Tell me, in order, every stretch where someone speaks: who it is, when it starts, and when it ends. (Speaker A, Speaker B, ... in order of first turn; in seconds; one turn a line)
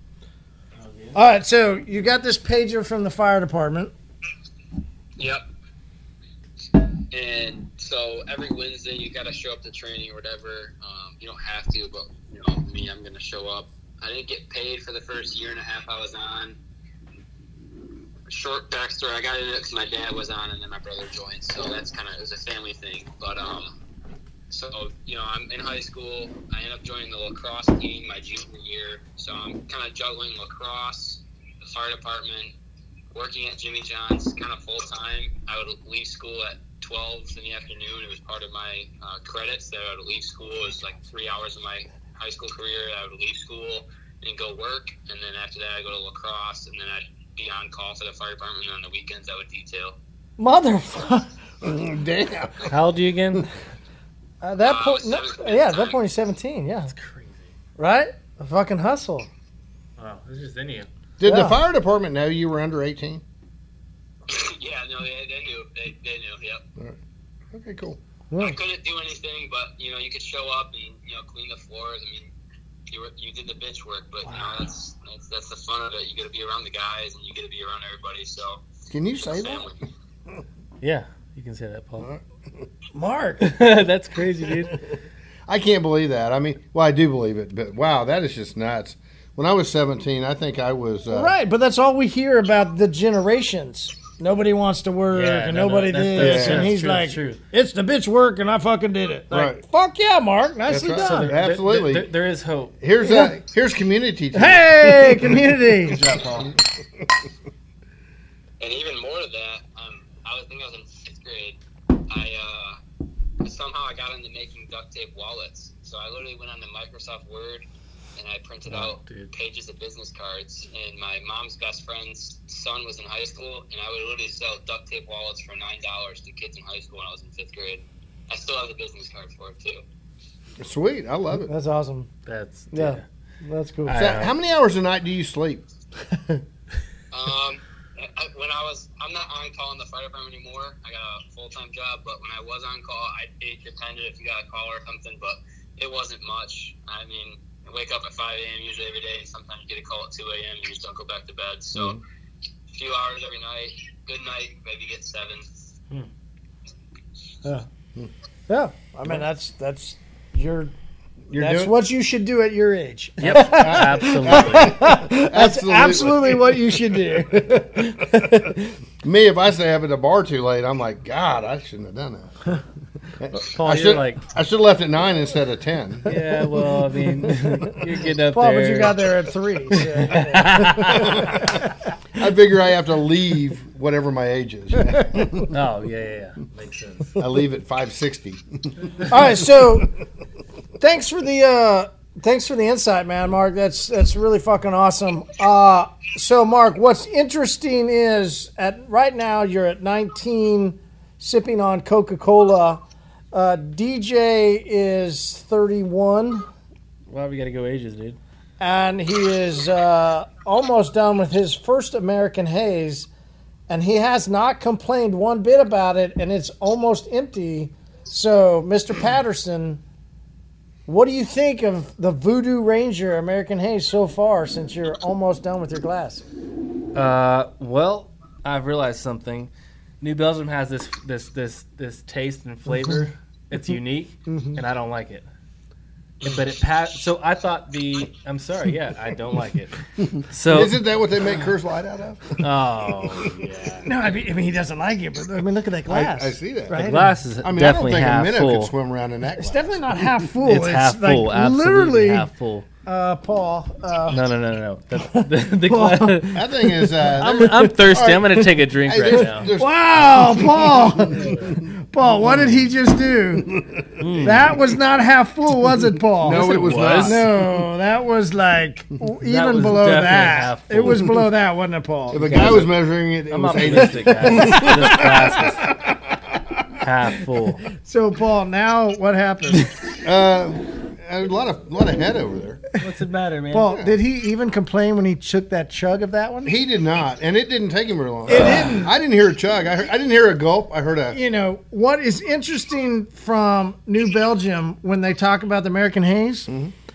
Speaker A: 0.8-1.2
Speaker B: 1.1-3.9
Speaker C: 5.2-5.5
Speaker C: 7.1-16.6
Speaker C: 18.3-23.7
Speaker C: 24.5-32.5
Speaker C: 33.1-50.0
Speaker B: 50.4-51.3
Speaker D: 51.6-52.8
Speaker A: 52.7-53.5
Speaker B: 54.4-56.9
Speaker C: 54.6-56.0
Speaker A: 56.9-57.5
Speaker B: 57.8-59.3
Speaker A: 60.0-60.9
Speaker D: 61.2-63.2
Speaker B: 61.2-61.6
Speaker C: 64.3-66.6
Speaker D: 67.5-68.0
Speaker B: 68.3-68.6
Speaker C: 68.4-72.3
Speaker C: 72.9-78.7
Speaker B: 74.3-74.6
Speaker D: 78.9-79.7
Speaker C: 79.2-79.8
Speaker A: 80.8-82.1
Speaker B: 82.9-83.6
Speaker A: 83.4-84.8
Speaker D: 85.5-91.3
Speaker B: 91.1-101.3
Speaker A: 95.1-97.4
Speaker D: 96.2-96.7
Speaker D: 99.3-99.6
Speaker D: 100.7-102.1
Speaker A: 100.9-102.8
Speaker D: 102.8-105.4
Speaker B: 103.0-103.4
Speaker B: 104.3-106.0
Speaker A: 105.8-106.5
Speaker C: 108.6-112.8
Speaker C: 113.4-117.7
Speaker C: 118.2-129.8
Speaker A: 118.7-119.3
Speaker D: 130.6-131.5
Speaker B: 131.4-132.1
Speaker A: 132.3-133.1
Speaker B: 132.7-134.1
Speaker A: 133.9-134.3
Speaker D: 133.9-135.7
Speaker B: 136.1-136.4
Speaker C: 137.1-152.0
Speaker C: 152.7-155.6
Speaker B: 158.5-160.7
Speaker D: 161.3-161.7
Speaker B: 161.3-168.6
Speaker A: 163.2-165.0
Speaker D: 163.2-166.7
Speaker D: 169.0-172.6
Speaker D: 173.2-176.1
Speaker A: 173.3-174.3
Speaker A: 176.1-179.1
Speaker B: 176.1-177.8
Speaker B: 178.3-181.9
Speaker A: 179.7-181.6
Speaker D: 181.0-185.6
Speaker B: 185.0-185.3
Speaker A: 185.5-187.2
Speaker D: 187.2-189.1
Speaker B: 189.1-189.9
Speaker B: 190.8-206.5
Speaker A: 207.1-208.2
Speaker B: 208.6-213.1
Speaker B: 213.7-219.8
Speaker B: 220.9-226.2
Speaker A: 226.9-229.5
Speaker A: 230.0-235.2
Speaker B: 234.3-234.6
Speaker A: 236.2-240.8
Speaker D: 240.5-242.5
Speaker A: 242.4-243.9
Speaker D: 243.0-243.4
Speaker B: 243.8-247.2
Speaker D: 245.9-249.8
Speaker A: 246.7-248.7
Speaker B: 249.4-252.3
Speaker A: 250.4-252.7
Speaker B: 252.9-254.2
Speaker A: 254.1-256.5
Speaker B: 255.0-258.4
Speaker D: 256.4-261.7
Speaker A: 257.0-259.5
Speaker B: 259.2-263.6
Speaker A: 261.1-261.6
Speaker D: 263.4-264.3
Speaker A: 264.0-264.6
Speaker B: 264.2-272.5
Speaker D: 266.2-267.6
Speaker A: 266.2-267.2
Speaker A: 269.2-271.2
Speaker D: 272.1-276.1
Speaker A: 272.1-272.8
Speaker A: 273.3-275.7
Speaker B: 274.2-275.0
Speaker A: 276.8-277.6
Speaker B: 277.7-279.7
Speaker D: 280.0-282.6
Speaker A: 282.8-283.7
Speaker B: 283.5-286.6
Speaker D: 283.7-284.0
Speaker D: 286.4-291.2
Speaker B: 288.3-288.9
Speaker B: 291.1-296.5
Speaker D: 296.5-296.7